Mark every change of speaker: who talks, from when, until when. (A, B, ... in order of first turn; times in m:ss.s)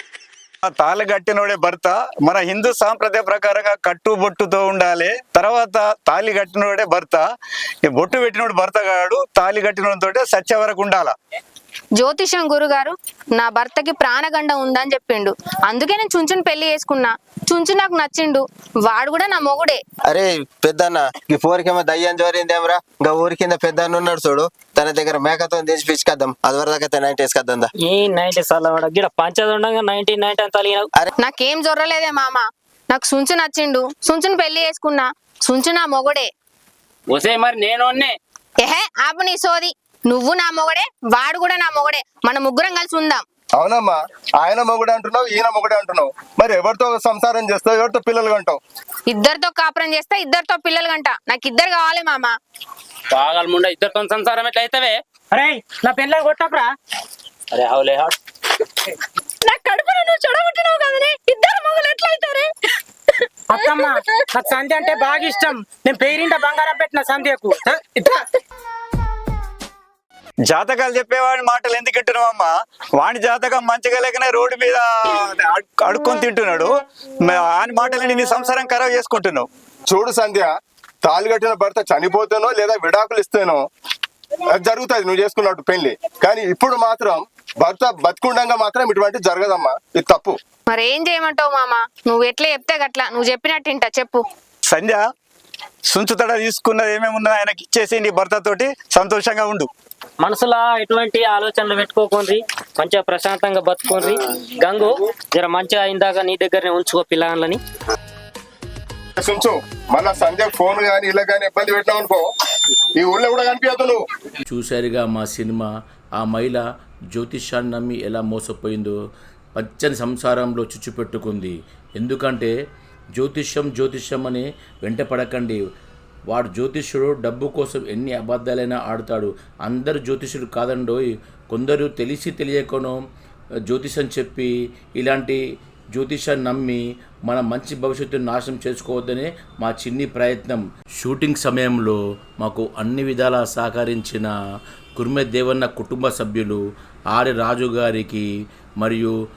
0:00.6-0:07.2 A
0:07.9-0:11.1 A
0:12.0-0:19.8 B
0:20.1-0:27.7 C
0:27.8-0:30.9 D
0:31.2-0:36.3 B
0:37.1-0:38.1 E
0:38.6-0:43.2 B
0:43.6-0:48.6 F
0:49.1-0:52.4 B
0:53.1-0:55.0 E
0:55.3-0:56.7 G
0:57.5-0:58.1 E
0:59.4-1:02.5 H
1:03.5-1:08.2 G
1:10.5-1:12.5 A
1:13.0-1:16.7 A
1:17.3-1:19.4 A
1:19.9-1:20.5 F
1:21.0-1:23.6 F
1:24.6-1:30.4 F
1:30.7-1:34.2 B
1:34.7-1:35.0 A
1:35.9-1:39.7 A
1:40.2-1:47.6 D
1:49.2-1:52.2 F
1:53.0-1:54.0 F
1:54.5-1:58.9 I
1:59.6-2:02.5 I
2:03.2-2:05.6 I
2:06.3-2:13.0 I
2:13.7-2:15.4 I
2:15.9-2:24.3 I
2:25.0-2:26.6 I
2:27.1-2:28.2 I
2:28.8-2:29.1 I